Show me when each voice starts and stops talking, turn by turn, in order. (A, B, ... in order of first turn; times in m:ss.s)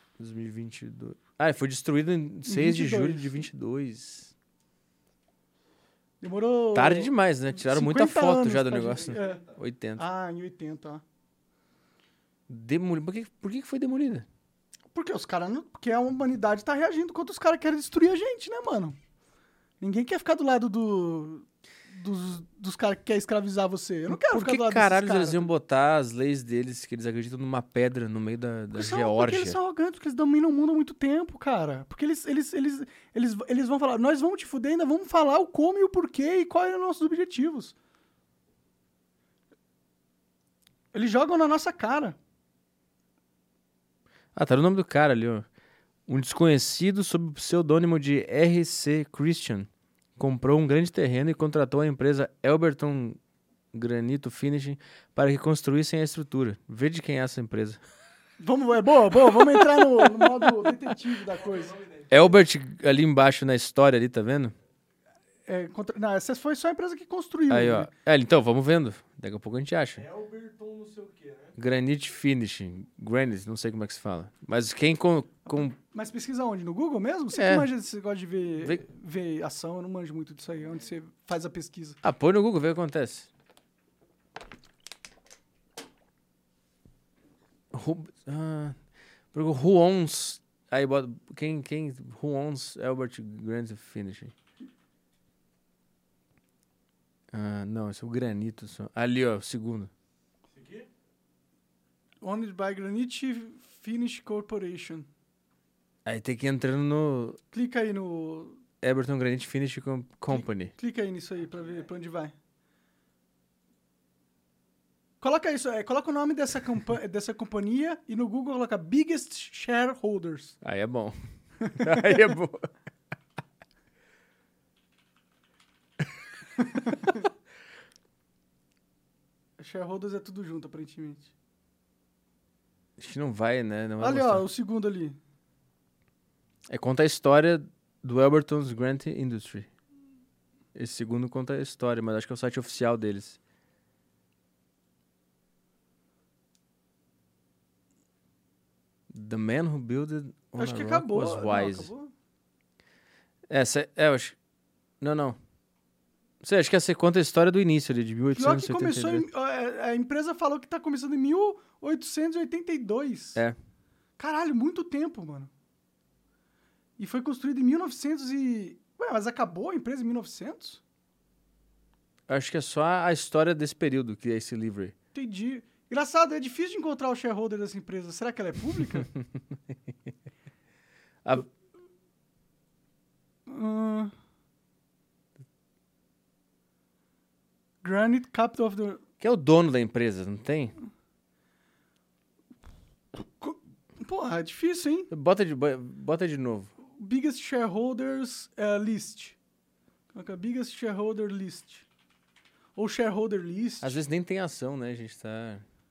0:00.2-0:04.3 A
0:02.4-0:03.4 B
0:06.2-0:09.4 B
0:06.7-0:10.0 A
0:10.0-0:11.0 B
0:12.5-0:14.3 A
0:14.9-0:19.0 B
0:19.8-0:25.5 B
0:24.1-0:29.6 A
0:28.7-0:37.7 B
0:40.9-0:42.2 B
0:44.4-0:45.4 A
0:46.1-0:53.2 A
0:53.7-0:57.8 A
0:58.4-1:01.8 B
1:01.7-1:02.1 C
1:02.1-1:04.6 A
1:05.5-1:07.9 B
1:07.5-1:10.1 A
1:10.0-1:11.5 C
1:11.6-1:15.8 A
1:15.8-1:22.0 B
1:17.3-1:17.7 A
1:22.0-1:23.3 A
1:27.7-1:28.8 A
1:29.3-1:34.3 A
1:37.3-1:39.9 A
1:42.2-1:45.1 B
1:46.0-1:47.4 A
1:47.5-1:48.6 B
1:48.8-1:50.7 A
1:50.3-1:52.3 B
1:55.2-2:00.6 B
2:00.6-2:01.2 A
2:01.7-2:02.0 B
2:01.7-2:02.7 A
2:09.6-2:11.3 B
2:13.0-2:14.4 A
2:14.0-2:15.2 B
2:16.7-2:19.7 A
2:20.7-2:23.4 A
2:29.1-2:31.9 A
2:30.6-2:32.1 B
2:33.5-2:34.4 A
2:35.0-2:35.4 A
2:36.4-2:39.2 A
2:38.4-2:43.4 B
2:44.2-2:45.5 B
2:47.0-2:50.8 B
2:52.3-2:54.9 A
2:55.1-2:59.1 B
3:03.5-3:04.1 B
3:07.8-3:09.0 B
3:09.2-3:10.7 A
3:13.2-3:15.1 B
3:15.1-3:16.7 A
3:16.9-3:19.4 B
3:20.1-3:21.8 B
3:22.8-3:24.0 B
3:23.8-3:25.6 A